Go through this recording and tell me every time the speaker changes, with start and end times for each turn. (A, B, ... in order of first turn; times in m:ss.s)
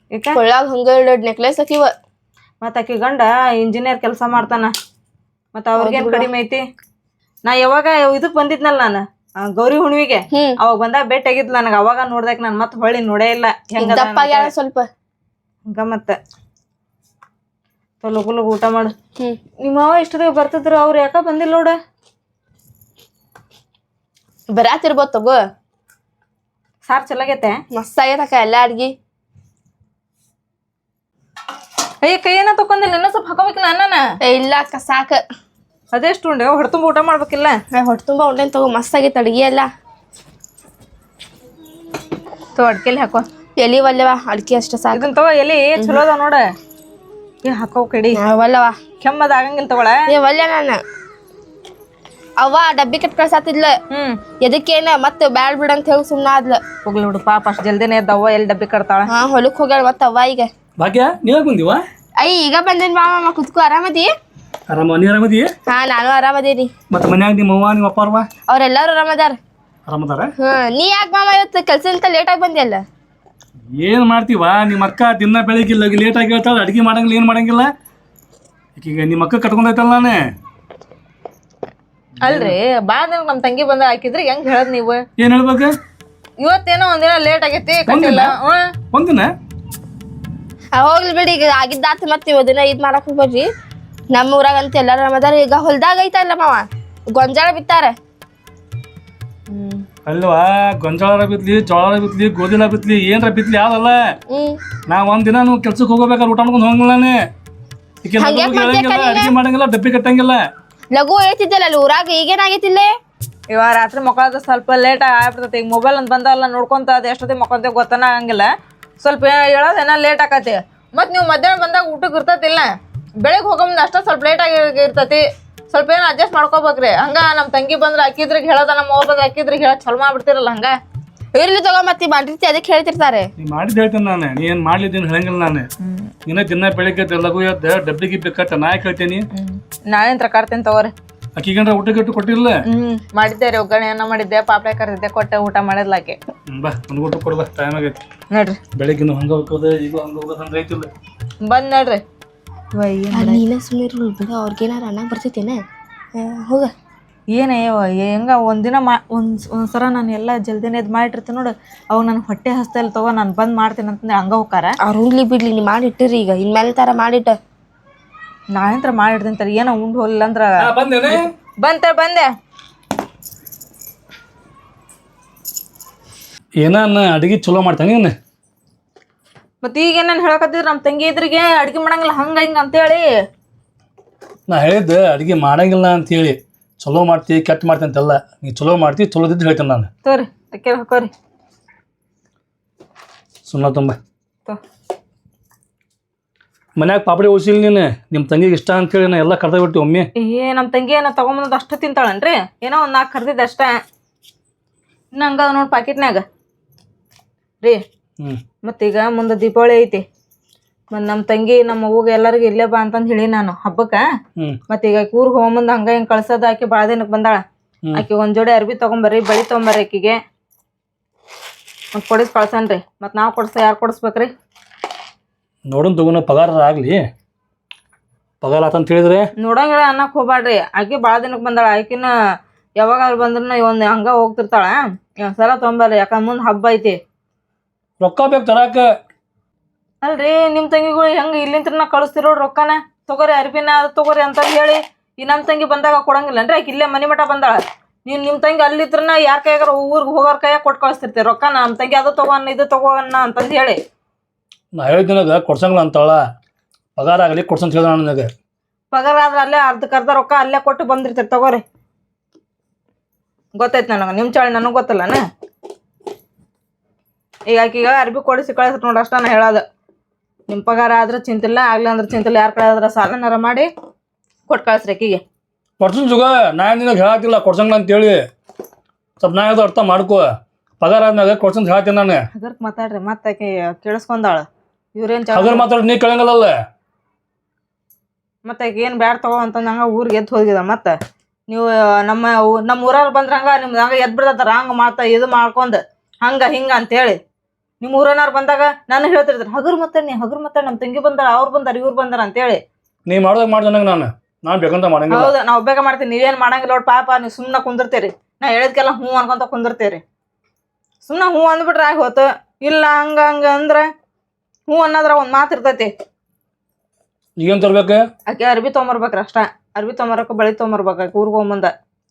0:00.1-0:00.4 A
0:00.3-0:01.9 B
0:02.6-0:04.7 A
0:05.5-0:06.6 A
0:05.8-0:06.3 B
0:07.4-0:14.5 A
0:13.8-0:14.9 B
0:15.7-0:16.2 A
0:18.0-0:18.9 A
0:19.6-0:21.8 A
0:24.5-0:25.4 B
0:26.9-0:27.6 A
0:27.7-0:28.9 B
0:32.0-0:34.0 A
0:34.2-0:35.2 B
0:35.9-0:37.6 A
0:37.7-0:39.7 B
0:42.6-0:43.2 A
0:43.6-0:45.0 B
0:44.9-0:46.5 A
0:47.4-0:48.2 A
0:48.1-0:48.8 B
0:49.0-0:50.1 A
0:50.1-0:50.8 B
0:52.4-0:53.8 B
0:53.9-0:54.2 A
0:54.4-0:56.6 B
0:56.8-0:59.1 A
0:59.1-1:00.5 B
1:00.8-1:01.8 C
1:02.2-1:04.1 B
1:04.7-1:05.5 C
1:05.7-1:06.7 B
1:06.9-1:08.3 C
1:08.5-1:09.4 B
1:09.9-1:10.3 C
1:10.4-1:12.8 B
1:13.7-1:17.7 C
1:18.8-1:20.2 C
1:22.2-1:25.0 A
1:22.2-1:22.5 C
1:25.2-1:25.7 C
1:26.4-1:28.7 A
1:27.9-1:28.3 C
1:28.9-1:29.3 C
1:30.7-1:33.5 B
1:34.1-1:37.9 B
1:39.5-1:39.8 A
1:40.0-1:44.0 C
1:44.3-1:44.6 B
1:44.9-1:47.2 C
1:48.0-1:50.4 C
1:48.2-1:49.3 B
1:50.9-1:52.9 B
1:53.5-1:58.5 A
1:59.0-2:02.7 A
2:03.2-2:10.7 A
2:11.3-2:13.3 B
2:13.4-2:15.7 C
2:15.8-2:16.1 A
2:16.2-2:19.2 C
2:19.3-2:20.9 A
2:21.4-2:22.6 C
2:22.7-2:26.2 A
2:26.5-2:28.0 C
2:28.3-2:28.6 A
2:28.7-2:30.9 C
2:31.4-2:32.0 A
2:32.7-2:33.4 A
2:33.1-2:35.6 B
2:36.1-2:36.7 B
2:37.3-2:44.7 A
2:44.8-2:47.4 B
2:48.5-2:52.3 A
2:50.6-2:51.2 C
2:56.6-2:58.1 C
2:59.6-3:03.1 A
3:04.5-3:09.9 C
3:10.0-3:11.1 A
3:13.4-3:14.0 C
3:16.8-3:20.1 C
3:20.2-3:23.8 A
3:25.1-3:26.2 A
3:28.6-3:30.0 A
3:30.9-3:34.0 A
3:34.7-3:37.4 A
3:37.9-3:40.2 A
3:41.9-3:44.3 A
3:45.7-3:47.0 C
3:48.4-3:49.2 C
3:49.4-3:52.1 A
3:52.8-3:57.0 A
3:58.0-3:58.9 C
4:00.0-4:13.8 A
4:14.7-4:16.2 C
4:17.0-4:18.3 C
4:18.9-4:21.6 A
4:23.6-4:25.2 A
4:27.5-4:29.6 A
4:30.5-4:33.7 A
4:34.5-4:35.2 A
4:35.8-4:38.2 C
4:39.2-4:40.2 C
4:40.8-4:42.2 C
4:42.3-4:45.6 A
4:45.3-4:46.5 C
4:48.4-4:50.9 A
4:51.5-4:57.2 A
4:57.8-5:02.6 A
5:03.0-5:05.3 C
5:05.1-5:10.0 A
5:11.0-5:13.8 A
5:14.7-5:15.9 A
5:17.4-5:18.0 C
5:18.3-5:21.7 A